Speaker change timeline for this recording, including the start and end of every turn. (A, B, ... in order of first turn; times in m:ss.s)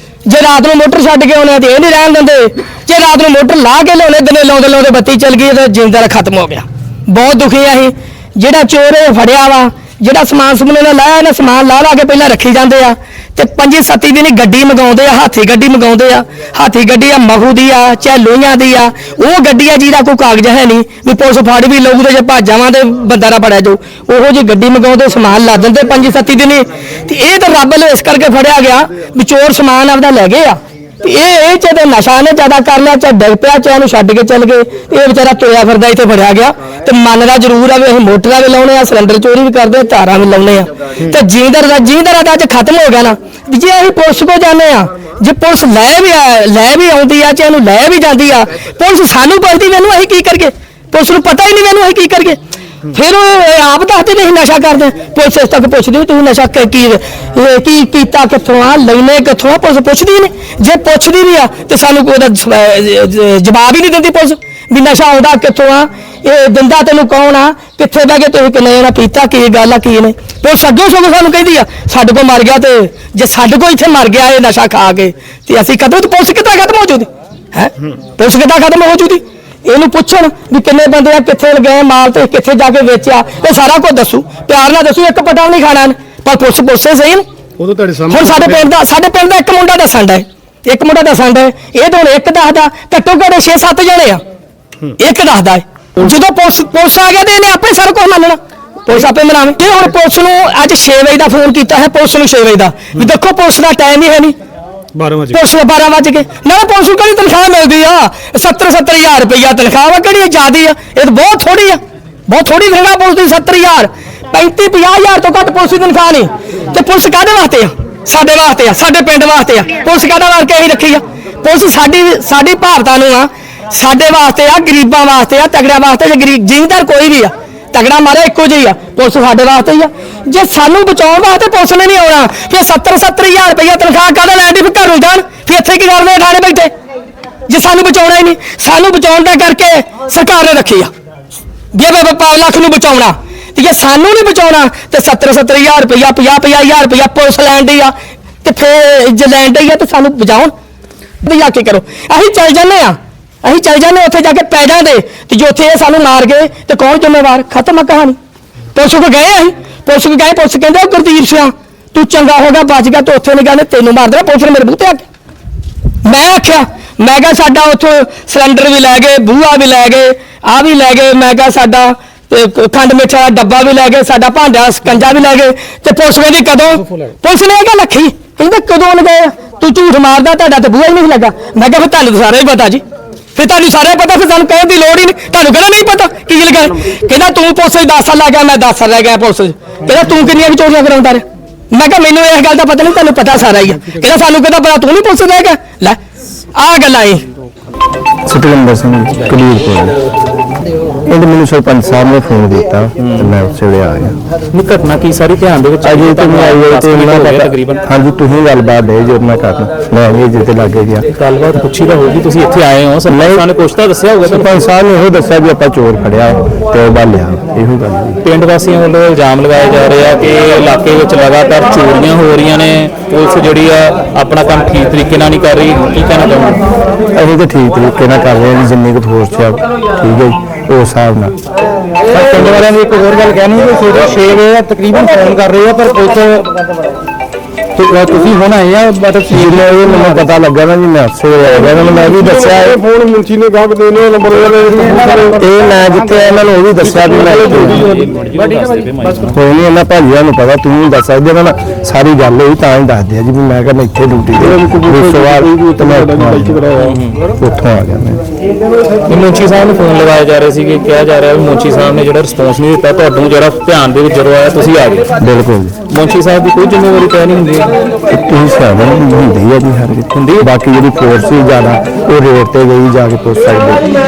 0:00.2-1:27.2 A
1:28.1-1:34.2 A
1:34.9-1:44.3 A
1:45.3-2:16.7 A
2:17.5-2:20.9 A
2:21.7-2:30.5 A
2:31.2-2:38.2 A
2:38.7-2:45.0 A
2:46.0-3:02.8 A
3:03.3-3:16.0 A
3:16.5-3:17.2 A
3:18.2-3:20.0 B
3:21.0-3:24.2 B
3:23.0-3:23.3 C
3:24.5-3:27.8 C
3:25.8-3:31.0 B
3:31.1-3:34.6 C
3:33.1-3:33.5 B
3:34.2-3:38.2 B
3:38.2-3:46.6 C
3:47.1-3:51.4 B
3:52.1-3:56.5 D
3:52.2-3:52.6 C
3:57.8-4:00.2 D
3:59.3-4:02.8 B
4:01.8-4:05.4 E
4:04.9-4:07.8 B
4:06.8-4:08.1 E
4:07.2-4:09.4 C
4:09.3-4:16.6 B
4:14.4-4:17.0 E
4:16.8-4:17.2 C
4:17.4-4:18.2 B
4:19.1-4:25.1 C
4:25.2-4:25.8 B
4:25.9-4:27.7 C
4:28.1-4:33.9 B
4:30.1-4:30.5 C